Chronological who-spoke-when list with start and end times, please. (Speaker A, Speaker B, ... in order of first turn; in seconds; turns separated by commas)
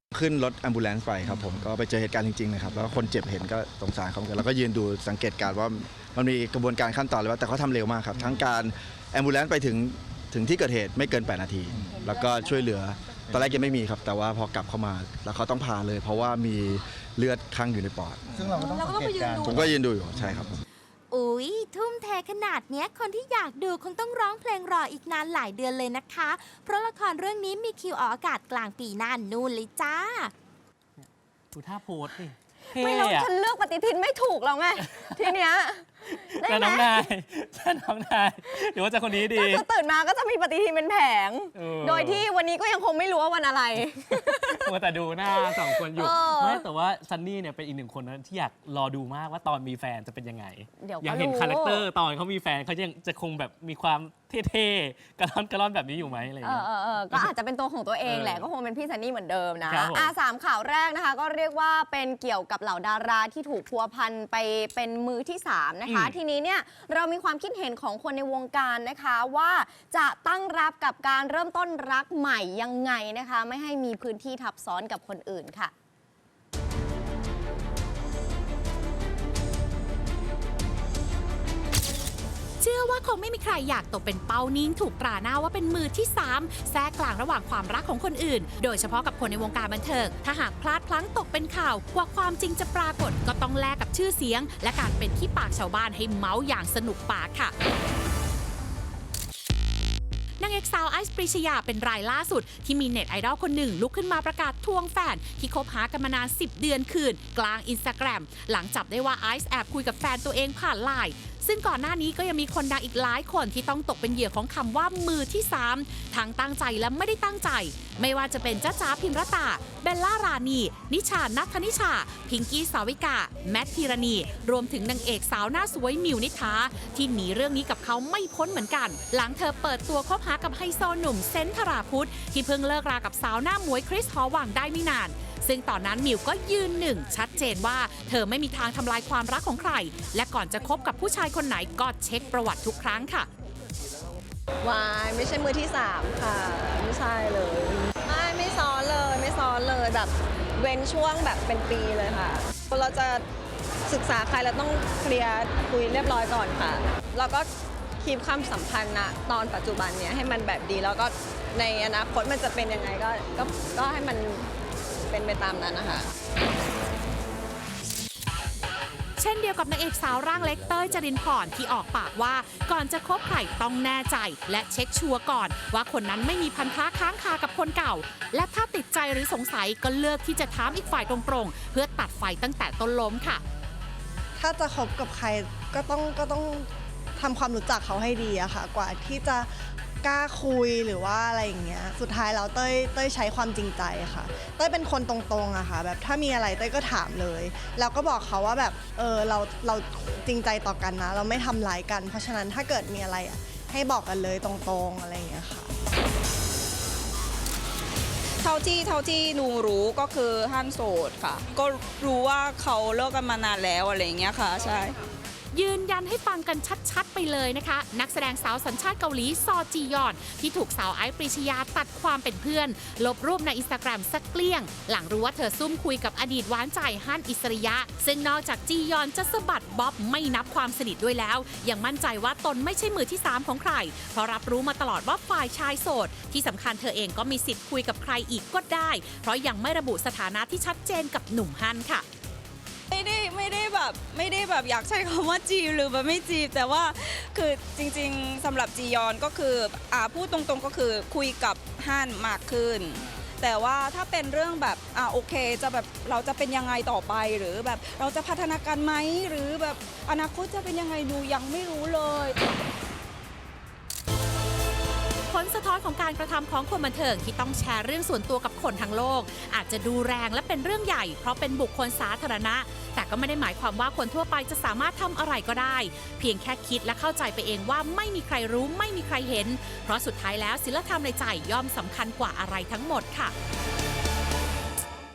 Speaker A: 0.1-18.4, Speaker B: 13.3-13.7, Speaker B: 18.3-20.5, Speaker A: 19.4-20.6, Speaker C: 21.1-30.3, Speaker D: 31.0-33.3, Speaker E: 32.8-37.0, Speaker D: 34.9-35.3, Speaker D: 36.1-39.6, Speaker E: 39.3-44.7, Speaker D: 41.5-42.2, Speaker D: 43.8-57.3, Speaker E: 45.3-46.6, Speaker E: 50.8-51.8, Speaker E: 56.4-75.7, Speaker D: 58.0-58.5, Speaker D: 59.7-60.1, Speaker D: 65.8-66.2, Speaker F: 82.6-97.5, Speaker F: 100.4-143.3, Speaker G: 144.6-153.2, Speaker G: 153.9-157.5, Speaker G: 158.0-164.5, Speaker G: 165.1-166.0, Speaker F: 169.2-183.4, Speaker H: 184.4-205.7, Speaker I: 208.4-214.9, Speaker F: 215.5-242.1, Speaker I: 242.9-262.3, Speaker F: 265.3-283.3